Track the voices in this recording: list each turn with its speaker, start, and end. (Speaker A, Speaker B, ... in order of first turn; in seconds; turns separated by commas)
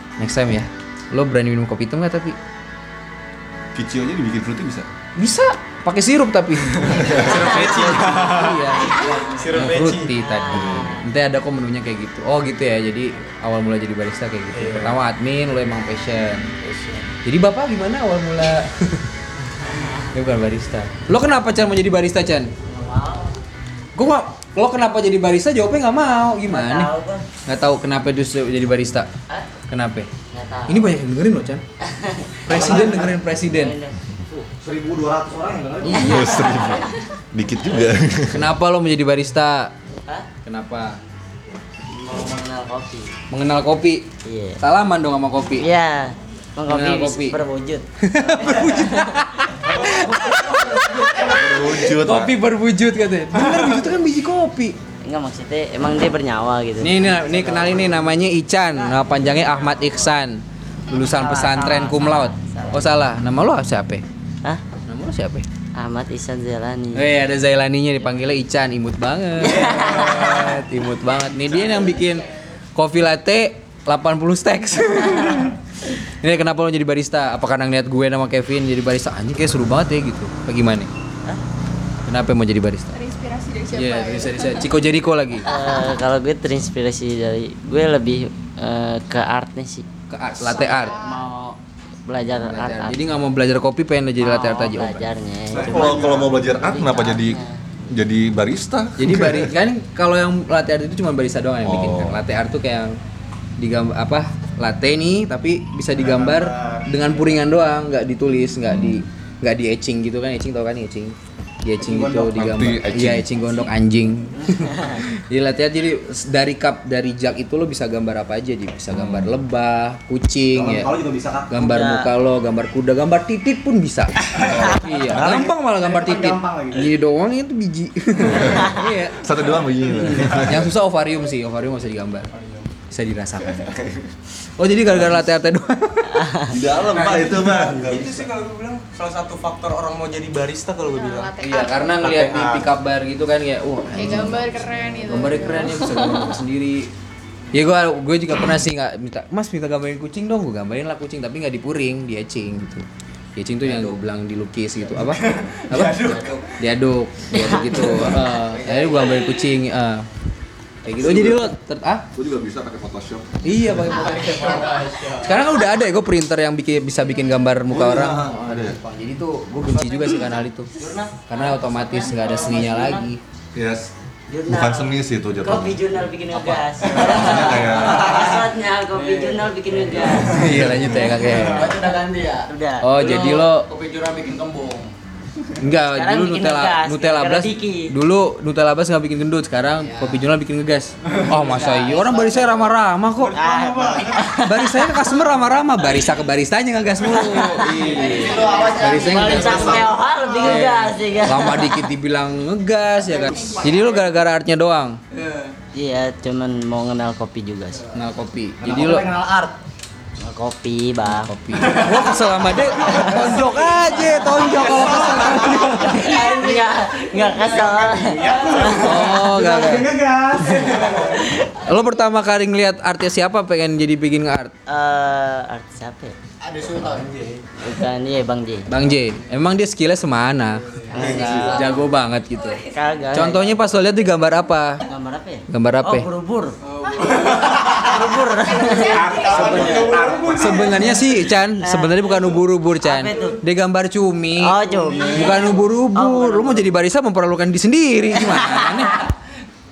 Speaker A: 0.2-2.4, Speaker B: 3.8-4.9, Speaker A: 5.2-16.5, Speaker C: 6.8-10.2, Speaker D: 10.2-11.1, Speaker C: 14.5-15.0, Speaker D: 16.6-17.0, Speaker A: 17.2-19.1, Speaker D: 19.8-20.0, Speaker A: 20.1-22.5, Speaker D: 22.7-23.4, Speaker A: 24.0-26.9, Speaker D: 26.5-27.3, Speaker A: 27.4-29.1, Speaker A: 29.7-30.1, Speaker D: 30.3-31.0, Speaker A: 30.7-31.6, Speaker D: 31.8-34.0, Speaker A: 32.5-33.8, Speaker E: 32.5-33.1, Speaker E: 34.3-36.6, Speaker D: 35.9-36.9, Speaker B: 35.9-38.5, Speaker A: 38.3-39.7, Speaker A: 40.5-41.0, Speaker D: 41.9-43.1, Speaker A: 43.3-44.1, Speaker D: 44.2-44.6, Speaker A: 44.6-45.7, Speaker D: 45.6-47.9, Speaker A: 46.7-47.4, Speaker A: 48.0-54.8, Speaker B: 51.1-52.4, Speaker C: 53.4-53.8, Speaker D: 55.0-57.8, Speaker A: 56.8-64.0, Speaker D: 60.9-63.0, Speaker A: 64.9-65.5, Speaker D: 65.8-67.1, Speaker A: 67.0-80.9, Speaker D: 69.5-70.5, Speaker A: 82.1-82.9, Speaker F: 82.9-84.7, Speaker A: 83.8-85.5, Speaker D: 85.5-89.9, Speaker A: 90.1-91.0, Speaker F: 90.5-91.2, Speaker D: 90.6-93.0, Speaker A: 92.4-95.1, Speaker D: 94.2-97.6, Speaker B: 95.5-99.5, Speaker A: 99.0-103.0, Speaker B: 101.6-102.2, Speaker A: 103.6-120.9, Speaker E: 106.0-106.8, Speaker C: 106.3-106.8, Speaker B: 108.7-109.1, Speaker B: 112.0-113.3, Speaker D: 114.4-115.0, Speaker B: 118.9-119.3, Speaker E: 120.5-121.6, Speaker A: 121.5-129.2, Speaker D: 121.6-122.1, Speaker B: 124.4-125.5, Speaker E: 125.1-126.9, Speaker B: 128.3-130.7, Speaker A: 130.0-132.3, Speaker C: 132.3-132.6, Speaker A: 132.9-133.8, Speaker B: 133.5-134.1, Speaker A: 134.6-136.3, Speaker B: 134.9-135.2, Speaker B: 136.4-138.3, Speaker C: 136.9-141.3, Speaker F: 141.0-142.0, Speaker A: 141.4-146.9, Speaker C: 142.0-142.7, Speaker F: 144.0-146.4, Speaker A: 147.5-160.1, Speaker C: 155.0-156.4, Speaker D: 157.3-158.2, Speaker G: 158.4-159.1, Speaker A: 160.8-162.1, Speaker B: 161.0-161.5, Speaker B: 162.1-164.0, Speaker A: 163.4-170.7, Speaker G: 164.1-165.3, Speaker D: 164.3-164.6, Speaker B: 167.7-168.8, Speaker D: 170.8-173.1, Speaker A: 171.3-173.2, Speaker B: 173.5-173.9, Speaker D: 174.3-180.3, Speaker B: 174.5-175.8, Speaker B: 176.9-178.1, Speaker G: 177.1-180.2, Speaker A: 180.2-181.8, Speaker B: 180.4-181.1, Speaker G: 181.2-184.9, Speaker D: 182.5-182.8, Speaker A: 182.8-183.7, Speaker A: 185.6-193.4, Speaker D: 185.8-187.9, Speaker D: 191.3-192.6, Speaker C: 193.2-194.2, Speaker D: 193.3-195.1, Speaker A: 194.2-199.9, Speaker D: 197.1-201.9, Speaker G: 198.0-199.9, Speaker A: 200.4-205.0, Speaker F: 203.3-203.7, Speaker D: 205.7-207.8, Speaker A: 207.9-209.1, Speaker E: 208.6-209.6, Speaker D: 210.2-211.3, Speaker A: 211.1-215.9, Speaker C: 211.6-212.2, Speaker D: 212.9-213.2, Speaker E: 213.2-213.7, Speaker C: 213.2-213.6, Speaker D: 214.1-218.9, Speaker E: 214.4-221.2, Speaker C: 214.6-215.9, Speaker A: 218.7-219.9, Speaker C: 220.4-221.1, Speaker A: 221.6-224.5, Speaker D: 224.7-226.2, Speaker E: 226.4-227.1, Speaker C: 226.8-227.4, Speaker D: 227.6-228.7, Speaker A: 228.7-232.6, Speaker D: 230.9-231.8, Speaker B: 230.9-231.7, Speaker F: 231.2-231.5, Speaker F: 232.4-232.8, Speaker D: 232.7-233.6, Speaker A: 233.1-234.8, Speaker D: 234.8-236.6, Speaker A: 235.5-236.1, Speaker C: 236.7-237.8, Speaker F: 236.9-237.3, Speaker D: 237.3-239.1, Speaker F: 238.4-240.0, Speaker C: 238.8-241.1, Speaker E: 239.2-240.3, Speaker A: 240.3-249.1, Speaker D: 241.6-243.4, Speaker D: 244.4-246.7, Speaker C: 245.0-245.6, Speaker D: 248.1-249.1